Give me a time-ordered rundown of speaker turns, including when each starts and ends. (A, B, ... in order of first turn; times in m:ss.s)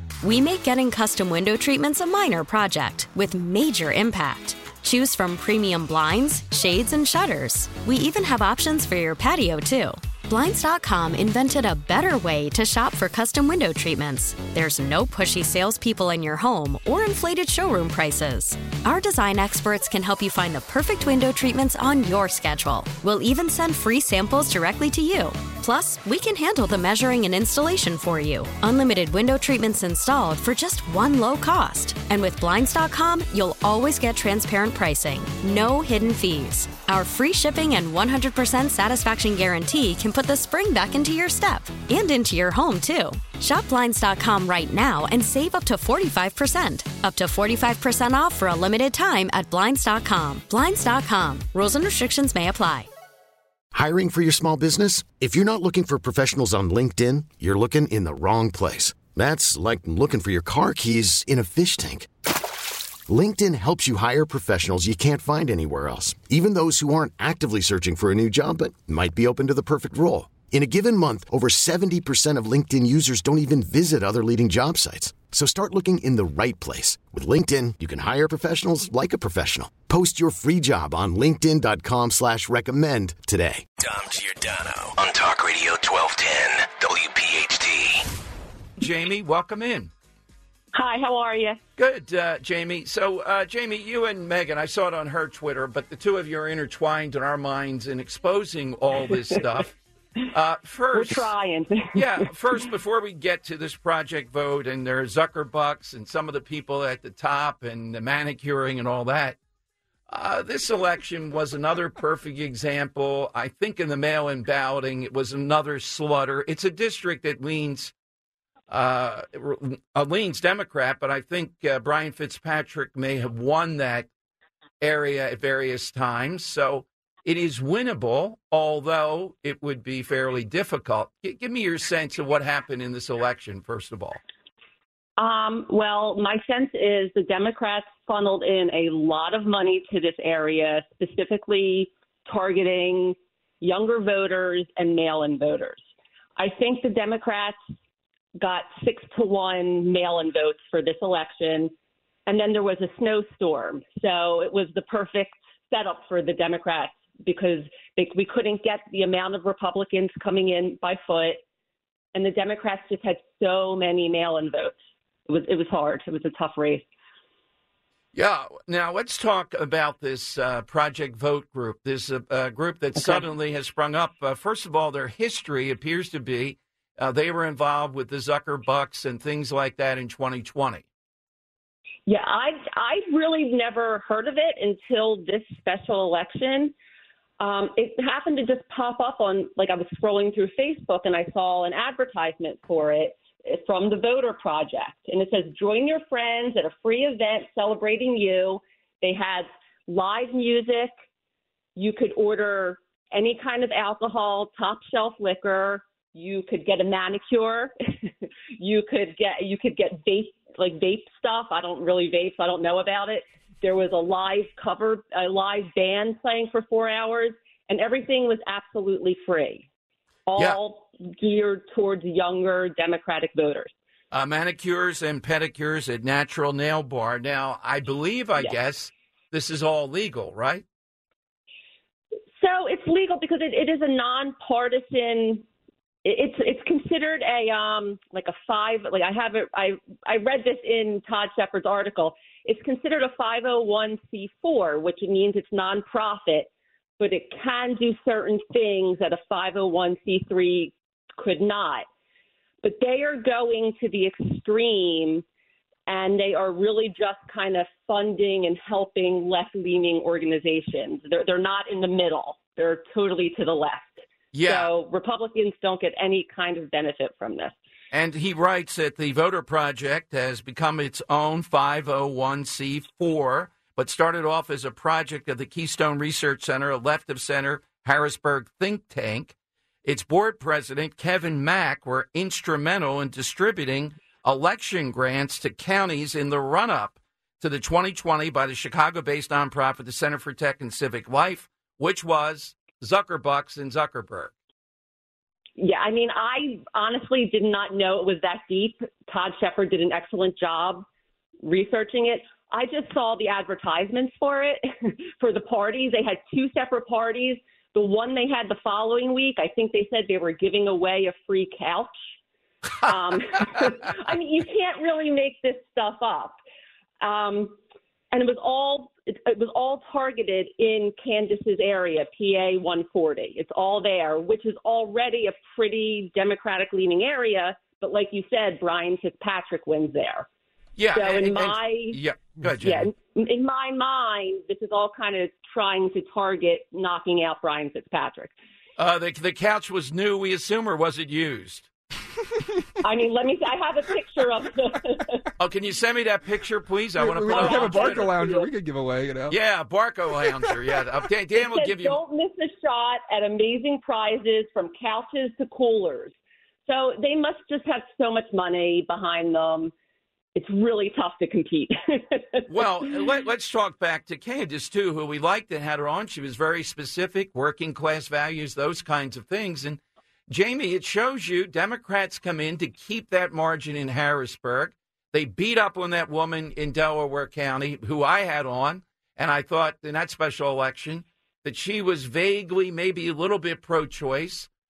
0:00.2-0:52.9 A
0:53.7-1:02.1 B
1:03.1-1:23.6 B
1:23.8-1:28.0 C
1:28.8-1:29.9 D
1:30.7-1:31.6 E
1:31.8-1:39.7 D
1:40.3-1:41.3 D
1:40.9-1:42.3 E
1:41.9-1:49.4 D
1:50.1-1:57.9 D
1:58.7-2:04.1 D
2:04.8-2:14.2 D
2:15.2-2:25.8 E
2:26.4-2:27.6 E
2:28.4-2:31.7 E
2:32.3-2:41.4 E
2:42.1-2:44.8 E
2:45.3-2:46.9 E
2:48.1-3:00.8 D
2:53.0-2:53.3 E
3:02.1-3:06.7 E
3:07.4-3:20.9 E
3:21.8-3:39.7 E
3:40.3-3:43.7 E
3:44.1-3:50.6 D
3:52.4-3:55.4 E
3:56.0-4:11.9 E
4:12.6-4:15.2 E
4:15.9-4:27.6 E
4:24.3-4:24.7 D
4:27.9-4:54.3 D
4:55.6-5:00.8 E
5:01.4-5:11.9 E
5:12.8-5:16.4 E
5:17.0-5:17.6 E
5:18.1-5:30.3 E
5:30.8-5:32.9 D
5:31.0-5:32.0 E
5:32.6-5:38.3 E
5:38.8-5:41.7 D
5:42.8-5:45.2 E
5:45.4-5:48.3 D
5:47.0-5:49.4 F
5:47.3-5:48.5 E
5:49.3-5:52.0 D
5:51.4-5:56.1 E
5:56.7-5:59.7 E
6:00.4-6:02.4 E
6:02.5-6:24.5 D